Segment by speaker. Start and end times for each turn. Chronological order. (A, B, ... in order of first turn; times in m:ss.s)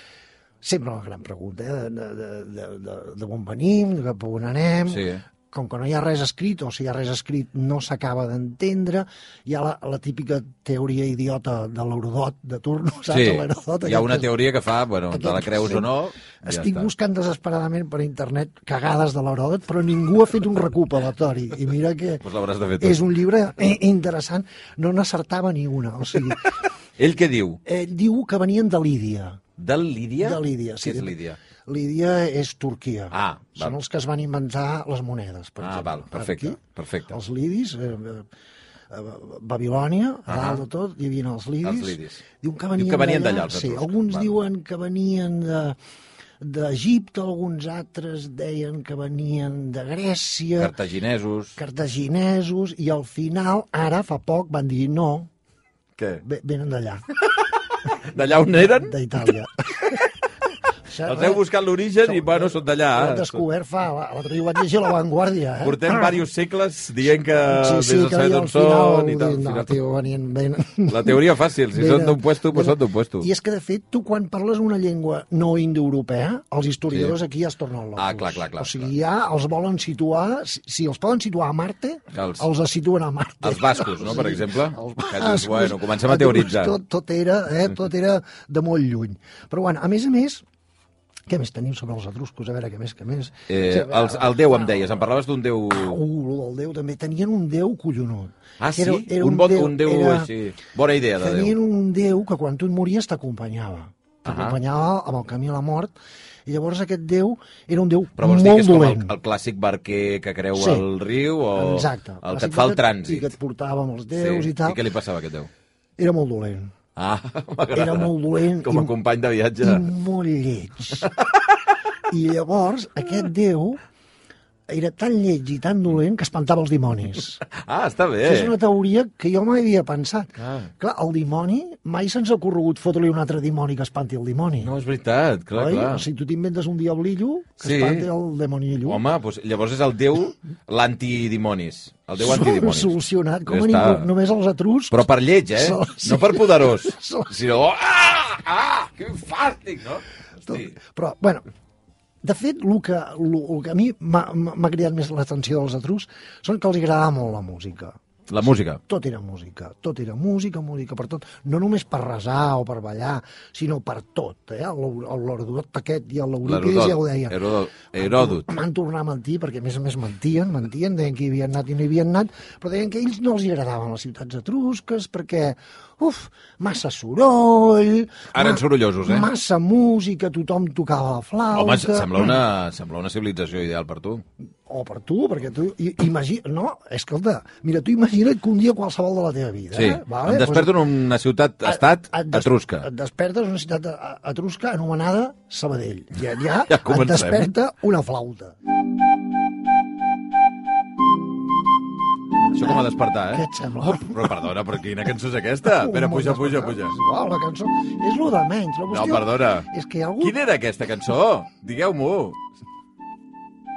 0:00.6-0:14.3 A
0:04.9-0:05.2 B
0:13.1-0:16.9 B
0:15.1-0:15.9 A
0:16.4-0:22.2 A
0:22.2-0:23.0 B
0:22.8-0:26.5 A
0:27.0-0:27.6 B
0:27.6-0:29.4 A
0:29.6-0:31.4 B
0:30.2-0:36.6 A
0:33.1-0:33.7 B
0:35.6-0:37.1 B
0:37.1-0:38.3 A
0:38.9-0:45.8 A
0:40.3-0:40.6 B
0:41.6-0:42.2 B
0:42.8-0:44.3 B
0:46.4-0:50.7 A
0:50.6-0:51.6 B
0:51.6-0:55.3 A
0:56.0-0:56.2 B
0:56.2-0:57.0 A
0:57.9-0:59.3 B
0:58.7-1:00.0 A
1:00.9-1:01.4 A
1:01.0-1:03.4 B
1:02.0-1:06.1 A
1:05.6-1:09.7 B
1:07.4-1:11.2 A
1:10.9-1:13.3 B
1:11.7-1:30.4 A
1:18.0-1:18.9 B
1:22.1-1:22.4 B
1:23.4-1:26.8 B
1:31.3-1:35.0 A
1:33.5-1:36.0 B
1:35.7-1:40.3 A
1:38.6-1:41.5 B
1:41.2-1:45.9 A
1:44.2-1:44.6 B
1:46.4-1:49.1 A
1:48.2-1:53.3 B
1:50.5-1:50.8 A
1:51.5-1:54.8 A
1:54.1-1:55.5 B
1:56.0-1:56.7 A
1:57.0-1:59.9 B
1:57.7-1:58.9 A
1:59.6-2:01.1 A
2:01.0-2:01.6 B
2:02.1-2:03.8 A
2:04.7-2:07.4 A
2:07.5-2:08.5 B
2:08.2-2:14.7 A
2:10.4-2:10.7 B
2:14.6-2:16.0 B
2:15.5-2:19.0 A
2:17.6-2:18.1 B
2:18.8-2:23.0 B
2:22.2-2:27.3 A
2:23.5-2:24.1 B
2:24.9-2:30.7 B
2:30.5-2:31.4 A
2:32.2-2:38.0 A
2:38.3-2:38.8 B
2:38.8-2:47.4 A
2:46.4-2:48.5 B
2:47.9-3:02.4 A
2:58.3-2:59.3 B
3:01.5-3:04.2 B
3:04.7-3:10.7 A
3:09.7-3:12.9 B
3:11.6-3:18.5 A
3:16.7-3:17.5 B
3:22.5-3:26.9 B
3:23.3-3:24.3 A
3:25.6-3:30.4 A
3:28.9-3:29.7 B
3:30.2-3:32.4 B